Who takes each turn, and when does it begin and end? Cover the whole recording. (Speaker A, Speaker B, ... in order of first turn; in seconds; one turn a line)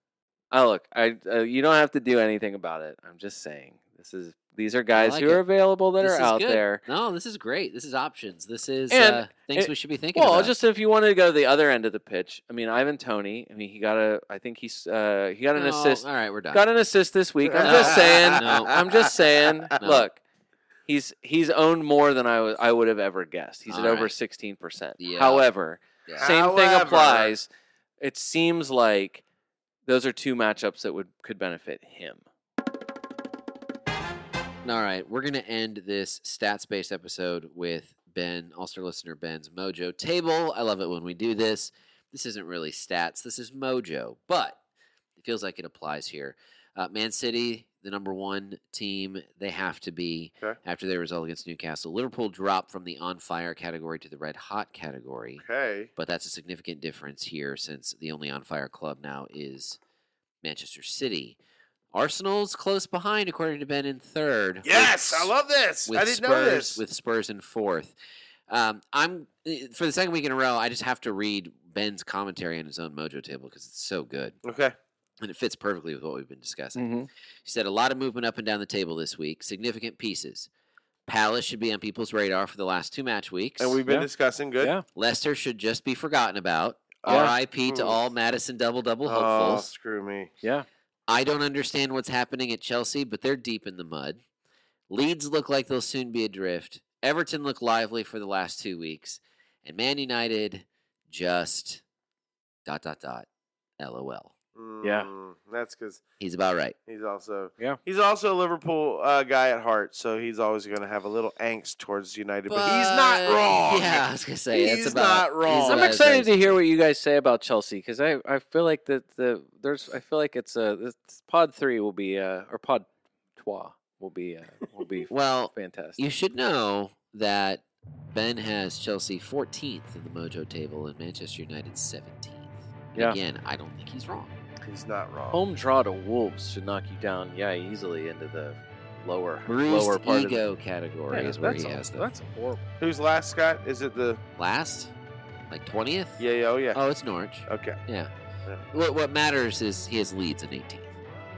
Speaker A: 0.5-6.8
Speaker B: 4.9-10.5
Speaker A: 8.9-20.2
Speaker B: 15.6-16.6
Speaker C: 17.4-19.1
Speaker B: 17.6-18.8
Speaker B: 19.8-20.1
Speaker A: 20.9-27.5
Speaker B: 23.7-24.1
Speaker B: 25.0-25.4
Speaker B: 26.1-26.3
Speaker C: 26.1-27.4
Speaker A: 28.0-29.2
Speaker A: 29.9-32.2
Speaker B: 34.6-44.6
Speaker B: 45.2-55.4
Speaker C: 55.4-55.9
Speaker B: 56.0-59.8
Speaker B: 60.4-61.4
Speaker B: 61.9-65.3
Speaker C: 64.6-66.8
Speaker B: 65.9-67.9
Speaker B: 68.5-74.4
Speaker C: 74.4-74.7
Speaker B: 75.2-80.5
Speaker A: 76.8-77.1
Speaker B: 81.1-83.8
Speaker C: 83.6-84.8
Speaker B: 84.9-89.7
Speaker C: 87.0-88.0
Speaker A: 87.1-87.3
Speaker C: 89.0-90.3
Speaker B: 91.1-94.2
Speaker B: 94.9-101.8
Speaker B: 102.7-103.3
Speaker B: 103.8-104.3
Speaker C: 104.5-106.0
Speaker A: 104.8-105.1
Speaker B: 106.2-106.8
Speaker C: 106.9-115.9
Speaker B: 112.5-116.6
Speaker A: 115.6-126.0
Speaker B: 125.1-134.3
Speaker C: 134.6-135.4
Speaker A: 135.3-140.4
Speaker B: 139.5-142.1
Speaker A: 141.1-142.7
Speaker C: 142.8-144.2
Speaker B: 144.4-144.9
Speaker B: 145.5-148.1
Speaker C: 146.2-146.8
Speaker C: 147.5-147.8
Speaker B: 148.7-150.9